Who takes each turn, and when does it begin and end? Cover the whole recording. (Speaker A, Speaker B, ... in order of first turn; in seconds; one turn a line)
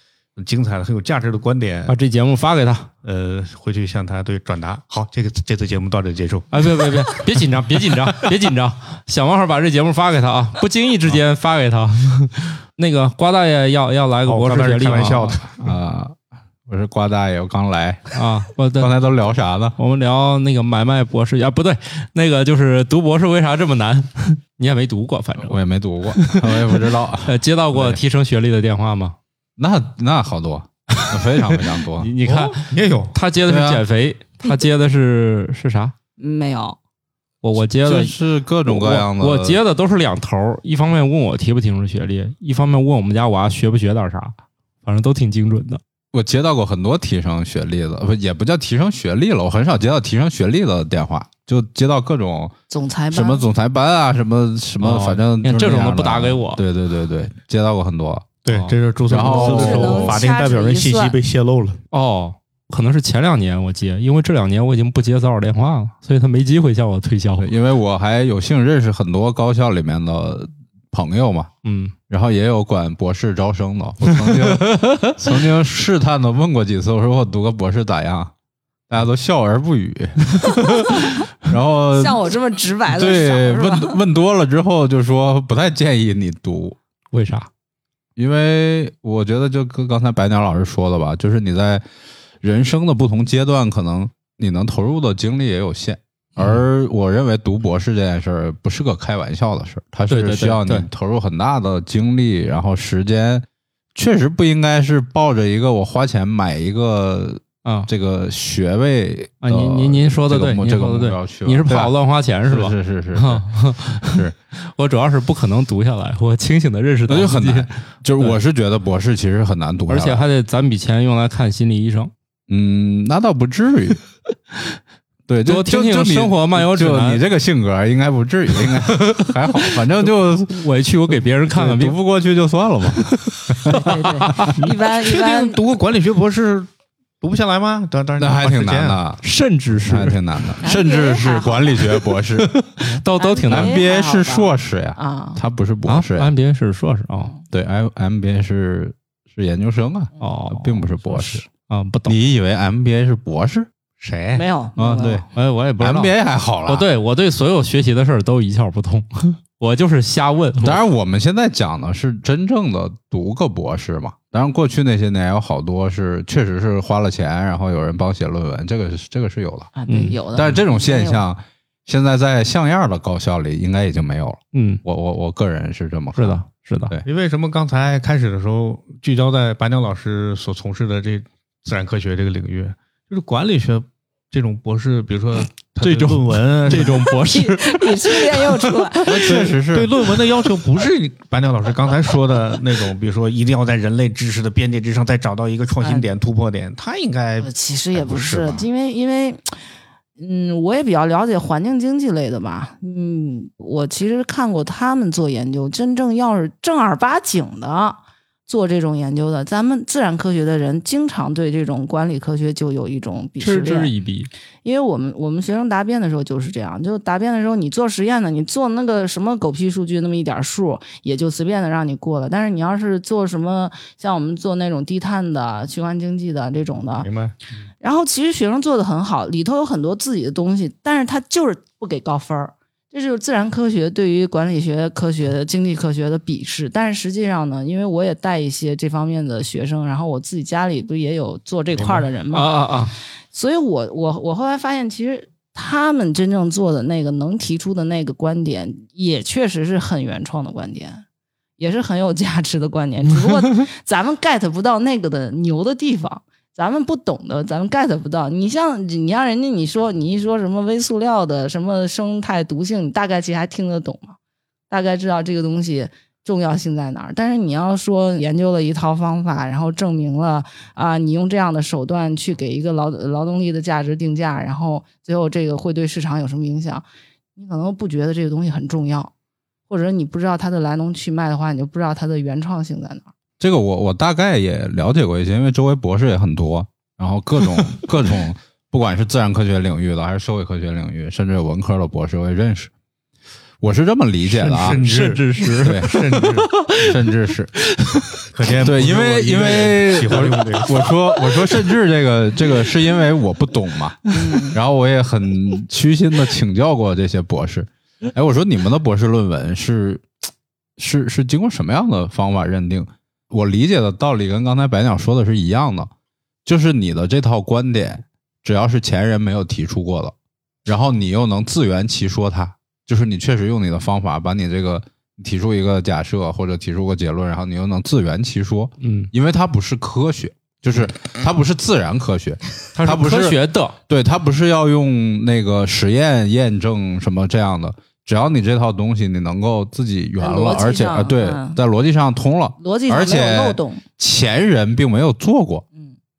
Speaker A: 0.4-1.9
Speaker B: 1.9-2.9
Speaker A: 3.0-7.1
Speaker B: 6.5-15.4
Speaker A: 14.2-15.7
Speaker C: 15.6-18.1
Speaker B: 18.1-18.9
Speaker C: 18.8-19.8
Speaker B: 19.8-25.6
Speaker C: 25.4-28.0
Speaker B: 26.1-29.1
Speaker C: 29.6-32.1
Speaker B: 31.0-35.9
Speaker A: 32.2-33.1
Speaker C: 33.4-33.8
Speaker D: 36.2-36.8
Speaker B: 37.4-45.8
Speaker C: 37.8-39.6
Speaker C: 46.1-52.5
Speaker D: 52.7-53.5
Speaker C: 53.1-58.4
Speaker B: 54.8-56.6
Speaker A: 58.4-61.8
Speaker B: 58.5-58.8
Speaker C: 59.1-60.2
Speaker D: 59.2-61.2
Speaker B: 59.5-60.0
Speaker B: 61.9-67.5
Speaker C: 67.4-71.5
Speaker B: 71.6-71.9
Speaker C: 72.1-78.3
Speaker B: 74.0-75.3
Speaker C: 78.9-82.2
Speaker D: 81.9-84.0
Speaker C: 82.9-86.8
Speaker B: 87.1-87.5
Speaker C: 88.2-91.8
Speaker C: 92.4-114.3
Speaker B: 96.4-96.6
Speaker B: 100.1-100.9
Speaker B: 107.6-107.9
Speaker B: 109.4-118.4
Speaker C: 117.1-120.2
Speaker B: 119.9-122.1
Speaker C: 122.5-124.0
Speaker C: 125.3-130.7
Speaker B: 125.4-127.2
Speaker B: 128.6-132.0
Speaker C: 131.5-134.5
Speaker B: 133.0-134.6
Speaker D: 133.7-135.6
Speaker A: 135.0-136.7
Speaker A: 137.2-139.0
Speaker C: 138.2-139.2
Speaker B: 139.2-140.5
Speaker C: 139.8-142.6
Speaker D: 140.6-142.0
Speaker B: 142.4-143.8
Speaker D: 143.2-145.4
Speaker C: 143.5-146.3
Speaker B: 145.9-147.3
Speaker C: 147.5-151.4
Speaker B: 150.2-152.2
Speaker C: 152.1-153.7
Speaker A: 154.0-154.4
Speaker D: 154.3-155.2
Speaker C: 154.8-155.3
Speaker B: 155.3-156.1
Speaker C: 155.8-156.9
Speaker B: 156.6-160.8
Speaker C: 160.6-169.7
Speaker D: 169.7-171.2
Speaker B: 169.9-170.2
Speaker C: 170.3-177.0
Speaker B: 174.5-174.8
Speaker B: 176.2-176.9
Speaker A: 177.0-187.0
Speaker B: 185.8-189.2
Speaker D: 187.1-189.5
Speaker C: 189.1-189.9
Speaker A: 189.4-198.7
Speaker D: 195.8-196.1
Speaker D: 197.4-199.5
Speaker D: 200.2-213.9
Speaker B: 213.4-214.3
Speaker D: 214.6-227.1
Speaker A: 227.0-227.4
Speaker D: 227.8-242.6
Speaker A: 241.8-242.1
Speaker B: 242.3-242.9
Speaker D: 243.3-251.0
Speaker D: 251.6-264.2
Speaker D: 264.7-276.8
Speaker D: 277.4-279.1
Speaker D: 279.7-283.1
Speaker C: 283.4-292.7
Speaker C: 293.6-294.8
Speaker A: 294.3-296.5
Speaker B: 294.6-297.1
Speaker C: 295.6-295.9
Speaker C: 296.8-297.5
Speaker B: 297.6-298.2
Speaker A: 298.3-300.7
Speaker C: 298.6-310.0
Speaker D: 304.1-304.6
Speaker C: 310.8-315.9
Speaker C: 316.4-320.1
Speaker C: 320.6-345.6
Speaker B: 328.8-329.1
Speaker B: 332.7-333.8
Speaker D: 340.2-341.6
Speaker D: 342.6-343.8